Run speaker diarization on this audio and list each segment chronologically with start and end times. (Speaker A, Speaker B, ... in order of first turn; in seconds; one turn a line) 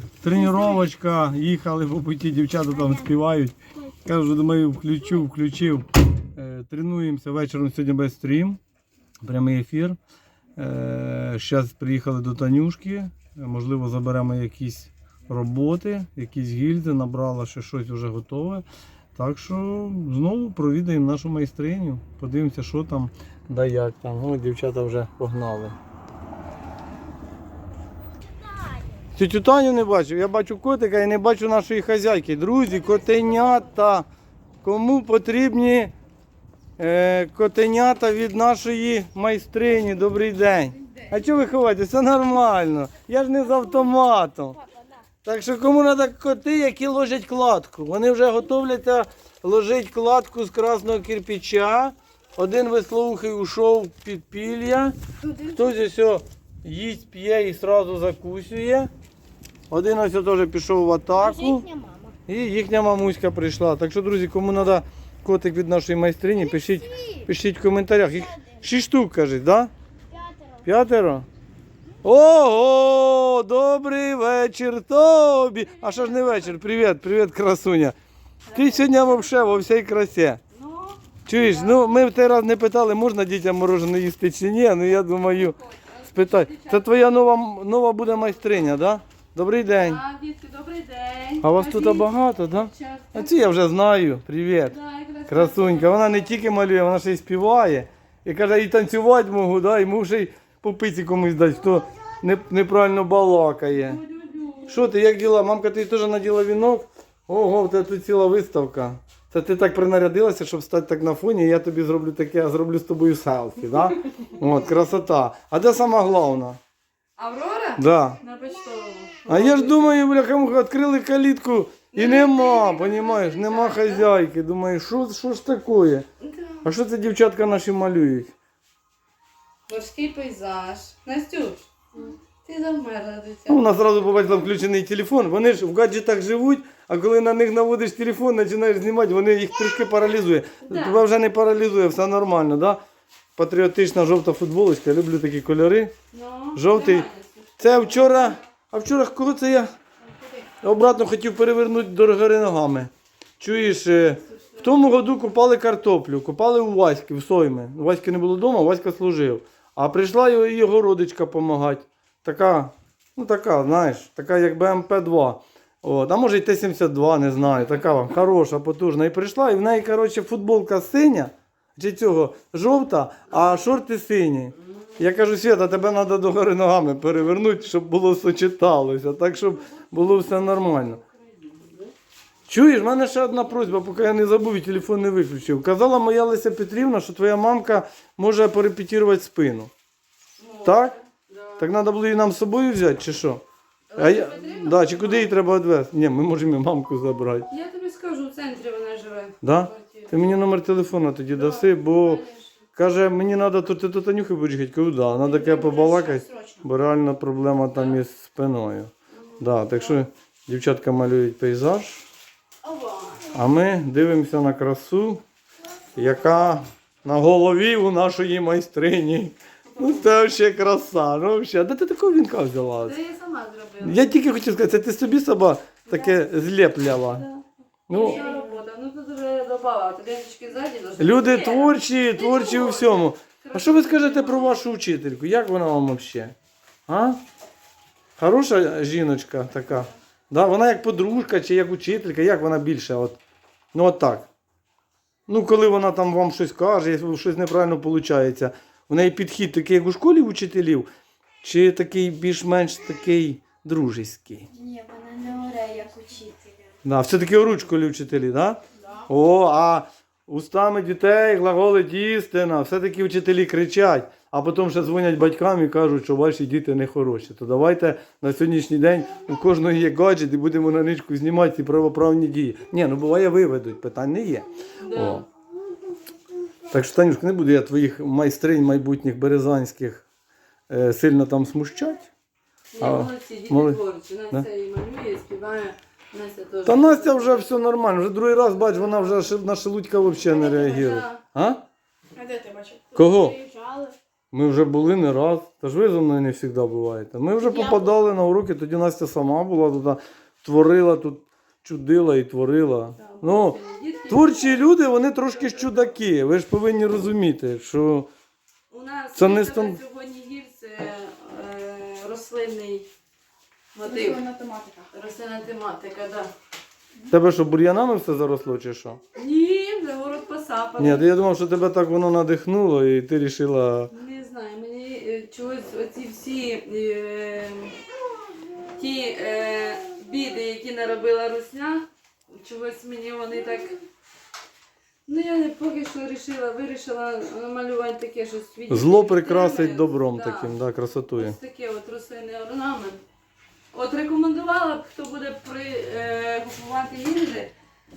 Speaker A: 0.2-8.6
Speaker A: 9.2-10.0
Speaker A: 10.6-25.8
Speaker A: 29.2-34.1
Speaker A: 34.6-35.9
Speaker A: 36.8-44.6
Speaker A: 45.2-58.9
Speaker A: 59.7-61.7
Speaker A: 62.3-69.7
Speaker A: 70.7-71.3
Speaker A: 72.0-78.0
Speaker B: 75.8-76.5
Speaker B: 78.5-79.4
Speaker A: 78.5-80.4
Speaker B: 80.5-82.1
Speaker A: 81.3-85.6
Speaker B: 85.3-87.1
Speaker A: 86.1-90.0
Speaker B: 89.8-92.1
Speaker A: 91.4-94.8
Speaker B: 92.7-93.3
Speaker B: 94.7-96.3
Speaker A: 95.3-104.0
Speaker B: 103.8-104.9
Speaker A: 104.7-116.6
Speaker B: 117.2-119.9
Speaker A: 117.8-118.2
Speaker A: 119.3-126.1
Speaker B: 121.9-124.1
Speaker B: 126.2-126.7
Speaker A: 126.6-128.3
Speaker B: 129.7-133.7
Speaker A: 133.5-142.8
Speaker B: 140.6-141.0
Speaker A: 143.4-145.9
Speaker B: 146.1-148.4
Speaker A: 146.6-147.1
Speaker A: 147.6-149.7
Speaker A: 150.6-181.0
Speaker B: 154.4-154.7
Speaker B: 179.7-181.9
Speaker A: 182.5-189.7
Speaker B: 190.4-191.7
Speaker A: 190.6-190.9
Speaker A: 191.6-193.4
Speaker B: 193.9-195.3
Speaker A: 194.0-197.5
Speaker B: 197.5-200.2
Speaker A: 199.4-202.2
Speaker B: 201.3-202.5
Speaker A: 202.8-212.1
Speaker C: 205.6-206.6
Speaker C: 212.7-213.2
Speaker A: 213.3-215.2
Speaker A: 215.9-223.0
Speaker B: 222.8-224.2
Speaker A: 223.8-227.3
Speaker B: 225.9-226.2
Speaker B: 227.0-234.6
Speaker A: 227.9-228.2
Speaker C: 228.0-228.3
Speaker A: 231.0-236.3
Speaker A: 236.9-237.2
Speaker A: 238.2-243.2
Speaker A: 243.7-244.3
Speaker A: 245.3-250.9
Speaker A: 251.4-254.5
Speaker C: 254.6-256.4
Speaker A: 256.8-275.3
Speaker B: 274.8-275.3
Speaker A: 276.7-280.1
Speaker A: 280.7-282.1
Speaker B: 282.7-287.5
Speaker A: 282.8-283.8
Speaker A: 286.7-291.6
Speaker B: 290.2-291.2
Speaker C: 292.2-293.9
Speaker A: 292.9-293.4
Speaker A: 294.3-303.6
Speaker B: 303.0-305.9
Speaker A: 304.1-308.1
Speaker B: 308.7-312.9
Speaker A: 309.1-309.8
Speaker B: 313.8-314.2
Speaker C: 314.3-314.7
Speaker B: 314.9-316.3
Speaker A: 317.1-319.0
Speaker B: 319.1-321.1
Speaker A: 320.8-323.9
Speaker B: 323.9-327.8
Speaker B: 328.8-333.8
Speaker B: 335.1-340.6
Speaker A: 338.7-341.4
Speaker B: 341.1-343.0
Speaker B: 343.7-347.5